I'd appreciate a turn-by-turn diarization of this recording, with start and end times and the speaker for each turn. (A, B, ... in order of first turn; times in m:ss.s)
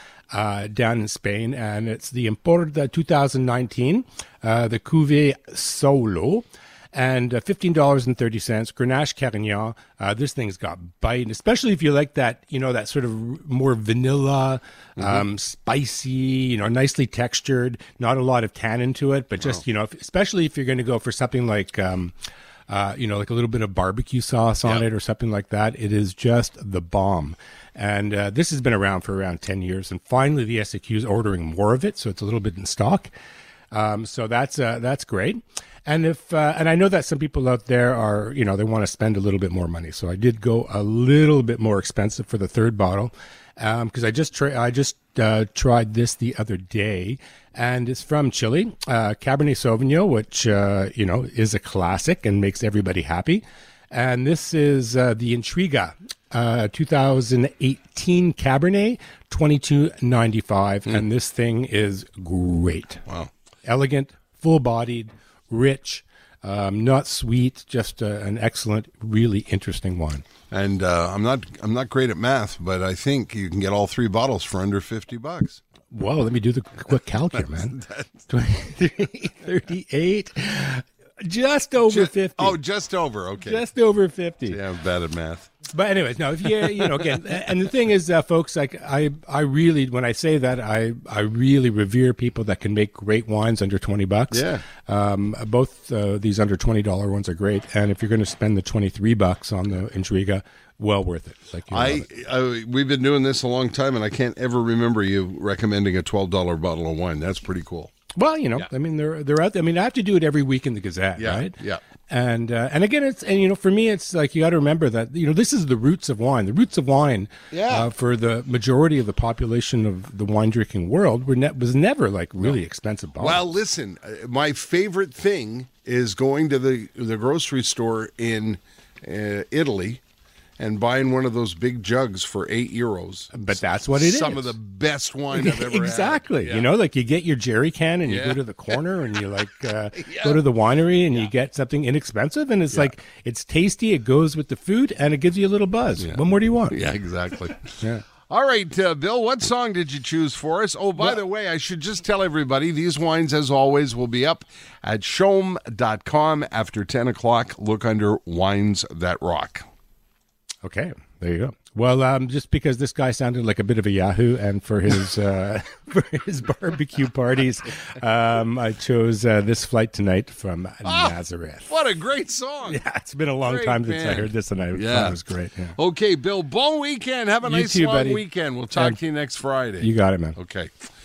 0:00.3-0:22.1 A
0:15.0-0:15.2 B
0:22.7-0:33.1 A
0:33.7-1:03.0 A
1:03.6-1:10.2 A
1:10.5-1:15.6 B
1:15.9-1:22.6 A
1:17.8-1:18.0 B
1:21.9-1:23.6 B
1:23.4-1:24.6 A
1:24.5-1:25.5 B
1:25.7-1:42.1 A
1:34.3-1:34.6 B
1:41.7-1:47.9 B
1:48.1-1:51.6 A
1:51.2-1:51.8 B
1:52.1-2:03.4 A
1:57.5-1:57.9 B
2:03.2-2:10.0 B
2:10.6-2:16.7 B
2:13.3-2:14.6 A
2:15.3-2:26.8 A
2:18.0-2:18.8 B
2:20.0-2:20.4 B
2:26.0-2:39.6 B
2:27.8-2:28.0 A
2:40.6-2:51.7 A
2:50.8-2:51.1 B
2:51.7-2:52.8 B
2:52.6-2:55.8 A
2:53.4-2:55.2 B
2:55.8-3:00.7 B
2:57.4-2:59.0 A
2:59.8-3:00.4 A